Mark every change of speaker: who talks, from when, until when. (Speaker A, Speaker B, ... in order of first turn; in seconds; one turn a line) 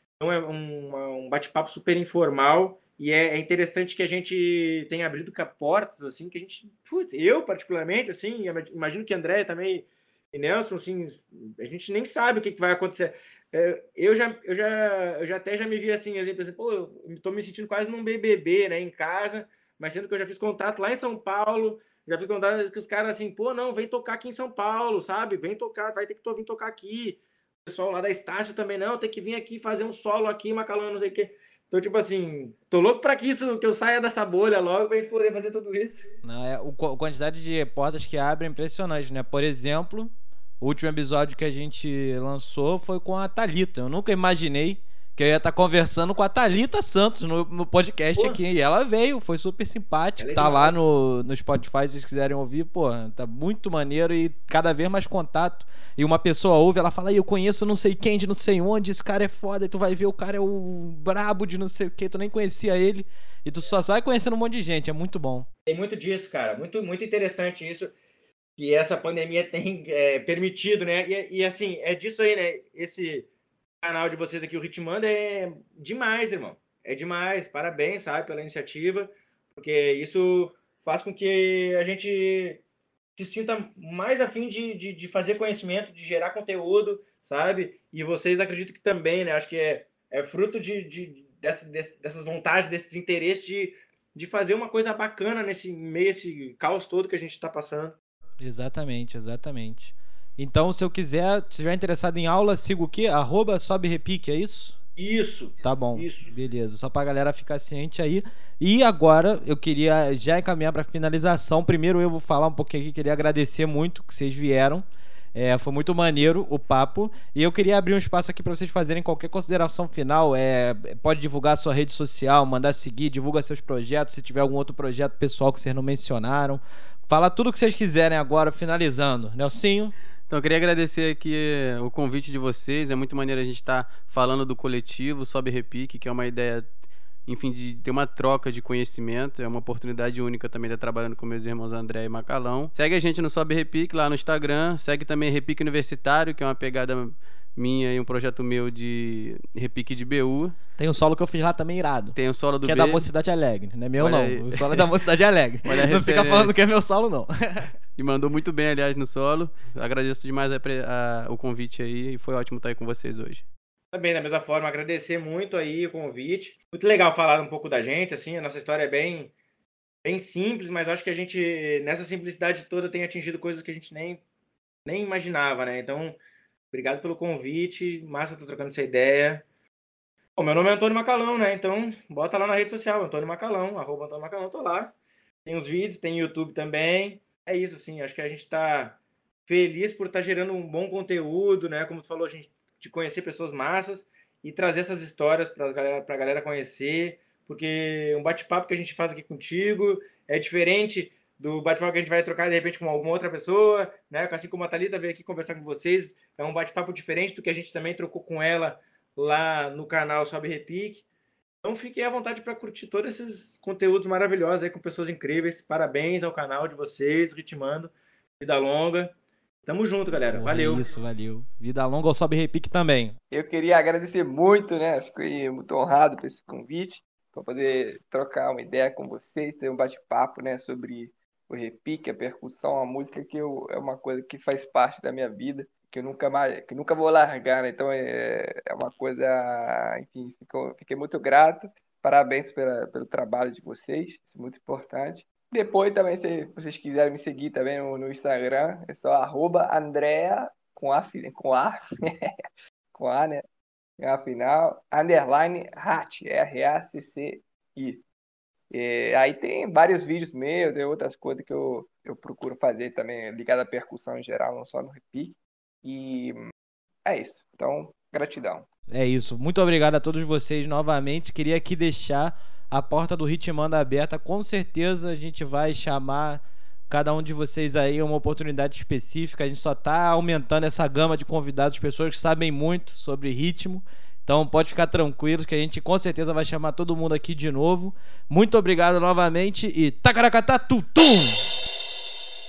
Speaker A: 0.2-36.1
Speaker B: 36.2-65.5
Speaker A: 48.2-48.4
Speaker A: 50.2-50.9
Speaker A: 65.7-67.9
Speaker A: 68.6-73.3
Speaker A: 73.8-82.6
Speaker A: 83.2-98.0
Speaker B: 98.4-104.8
Speaker A: 105.0-106.3
Speaker B: 105.6-129.9
Speaker C: 130.3-136.7
Speaker C: 137.3-150.6
Speaker B: 150.8-157.7
Speaker C: 152.2-153.1
Speaker C: 154.0-154.9
Speaker C: 155.7-156.5
Speaker C: 158.0-163.4
Speaker A: 163.9-169.3
Speaker A: 170.0-174.2
Speaker A: 174.8-176.2
Speaker A: 176.7-179.4
Speaker A: 180.4-184.9
Speaker A: 185.4-211.1
Speaker A: 211.6-219.1
Speaker A: 219.6-220.9
Speaker B: 220.3-223.2
Speaker D: 223.3-252.3
Speaker D: 252.9-253.4
Speaker D: 254.0-258.0
Speaker D: 258.7-266.4
Speaker D: 267.1-268.7
Speaker B: 268.9-291.6